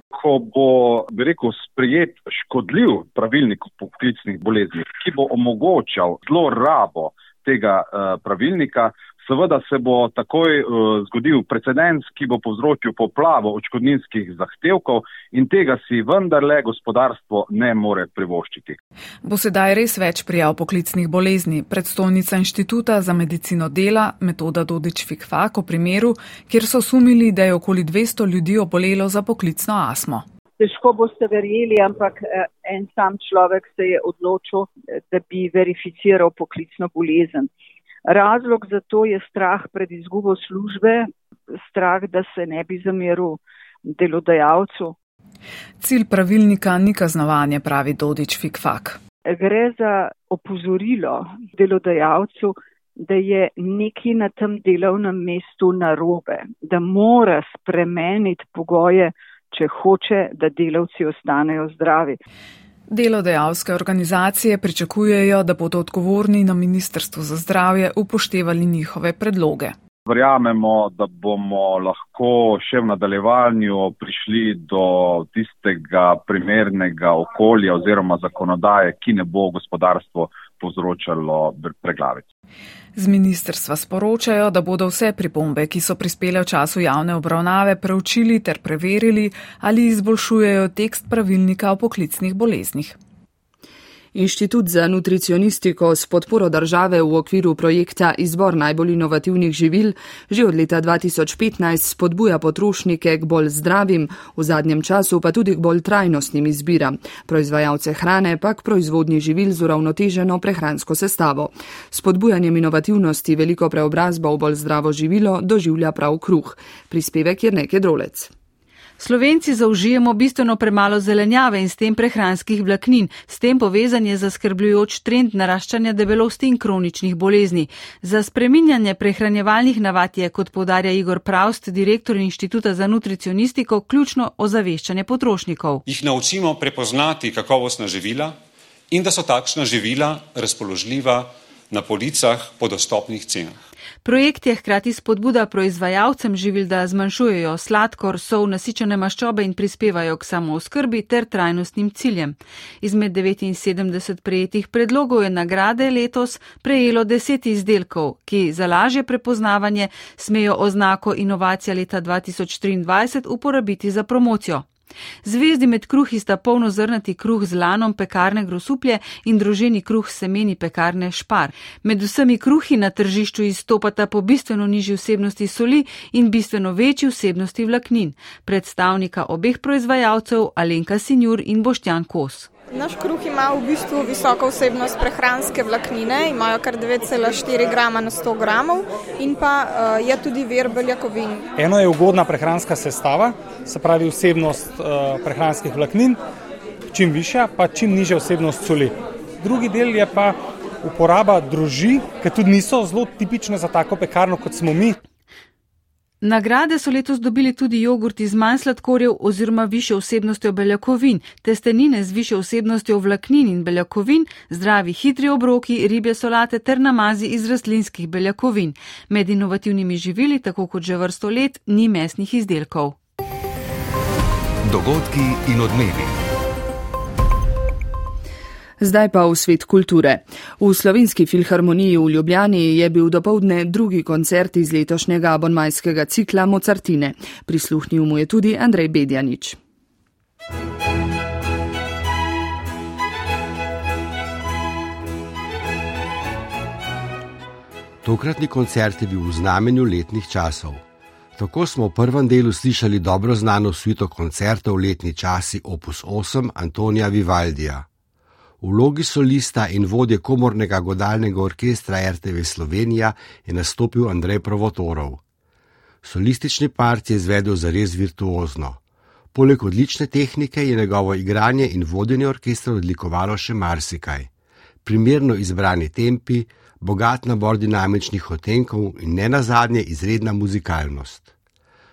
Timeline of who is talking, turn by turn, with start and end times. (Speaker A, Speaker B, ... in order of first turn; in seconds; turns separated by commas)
Speaker A: 0.1-18.8, Speaker B: 19.2-30.3, Speaker C: 30.6-37.5, Speaker C: 38.1-41.1, Speaker C: 41.7-45.0, Speaker B: 45.8-49.0, Speaker C: 49.3-62.2, Speaker B: 62.9-69.8, Speaker A: 70.1-82.2, Speaker B: 83.0-93.0, Speaker D: 94.1-118.3, Speaker E: 119.0-135.8, Speaker F: 135.9-138.3, Speaker F: 138.9-143.5, Speaker E: 144.0-164.7, Speaker E: 165.2-182.5, Speaker G: 182.7-191.5, Speaker H: 191.6-196.2, Speaker H: 196.9-205.0, Speaker E: 206.2-223.0, Speaker F: 224.7-226.1, Speaker D: 228.8-239.6, Speaker I: 248.0-250.8, Speaker I: 251.4-257.9, Speaker I: 258.6-265.2, Speaker I: 266.0-268.8, Speaker I: 269.3-274.3, Speaker I: 274.9-281.3